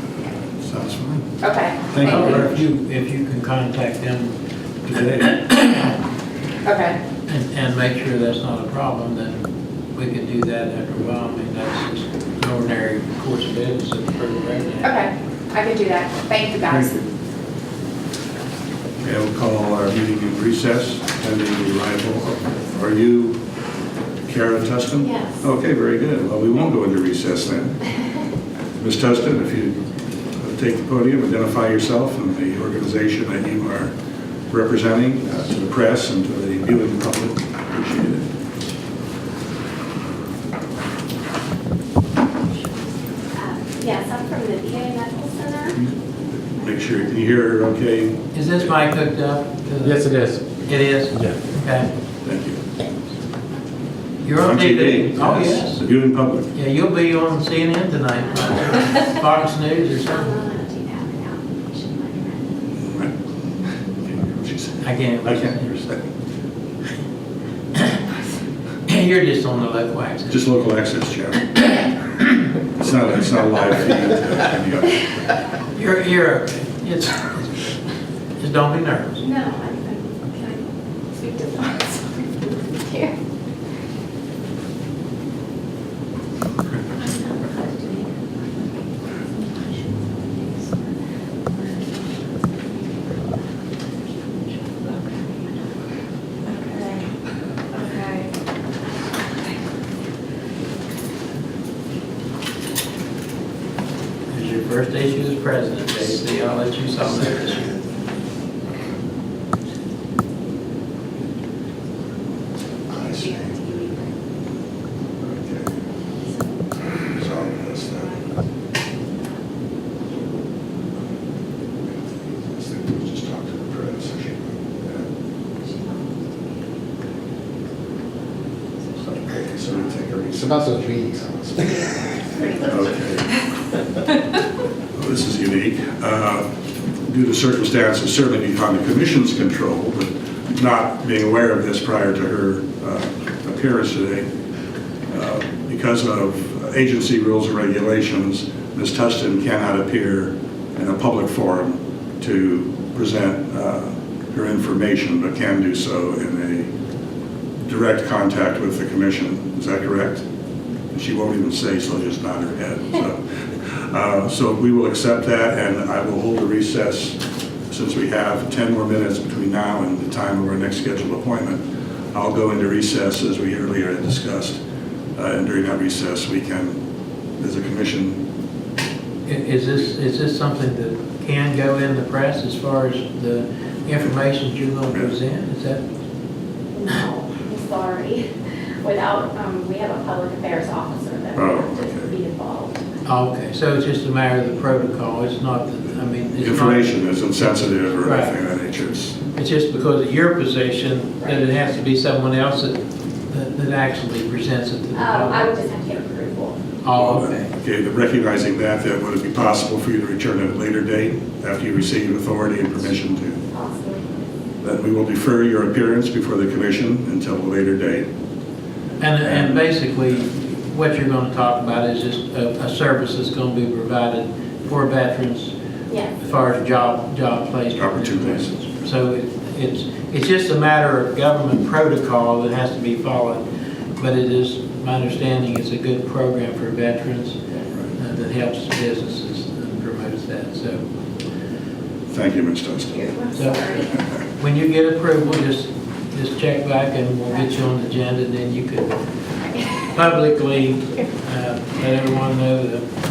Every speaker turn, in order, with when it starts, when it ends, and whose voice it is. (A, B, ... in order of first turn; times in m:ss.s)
0:00.6-0:02.6 A
0:01.4-0:02.4 B
0:02.0-0:04.4 C
0:04.9-0:05.4 A
0:05.1-0:05.9 C
0:06.6-0:07.0 B
0:07.3-0:09.4 C
0:09.9-0:15.0 C
0:14.8-0:17.1 B
0:16.6-0:17.0 A
0:19.0-0:23.4 A
0:24.2-0:27.8 A
0:25.0-0:25.4 D
0:28.8-0:29.8 A
0:30.4-0:33.9 A
0:34.5-0:38.3 A
0:43.3-0:45.8 D
0:45.8-0:48.7 A
0:48.3-0:51.9 C
0:49.8-0:50.5 E
0:52.2-0:52.6 A
0:54.2-0:55.8 C
0:54.4-0:56.5 A
0:56.5-1:00.4 C
1:00.0-1:02.7 D
1:02.8-1:03.1 A
1:04.0-1:05.6 A
1:04.8-1:06.0 C
1:08.9-1:10.5 C
1:10.3-1:11.7 A
1:12.6-1:15.0 A
1:15.7-1:17.5 C
1:18.4-1:19.2 C
1:19.2-1:23.2 D
1:27.0-1:28.2 D
1:29.3-1:30.9 D
1:36.8-1:37.0 D
1:44.3-1:47.8 C
1:52.9-1:53.6 A
1:53.1-1:54.1 D
1:55.2-1:55.7 A
1:57.0-1:58.2 A
2:01.8-2:05.0 A
2:09.0-2:10.5 A
2:10.3-2:11.9 E
2:11.2-2:11.6 A
2:11.6-2:13.3 D
2:12.6-2:13.3 A
2:14.9-2:16.5 A
2:17.0-2:24.2 A
2:25.1-2:36.7 A
2:37.6-2:40.2 A
2:40.9-2:54.6 A
2:55.2-2:56.8 A
2:57.4-2:58.2 A
2:59.2-3:05.8 C
3:06.7-3:08.3 D
3:08.8-3:13.0 D
3:11.3-3:12.1 A
3:13.0-3:16.9 C
3:16.4-3:19.2 A
3:18.0-3:18.4 C
3:19.3-3:25.5 C
3:24.9-3:26.6 D
3:26.8-3:27.5 C
3:26.9-3:33.4 A
3:33.5-3:34.2 D
3:34.6-3:38.0 A
3:39.0-3:45.5 C
3:39.2-3:39.6 A
3:46.2-3:53.4 C
3:47.7-3:48.6 A
3:54.0-3:57.4 C
3:58.0-4:00.8 C
4:02.1-4:03.1 A
4:02.9-4:04.0 D
4:03.3-4:03.7 C
4:04.4-4:08.9 C
4:09.8-4:12.8 C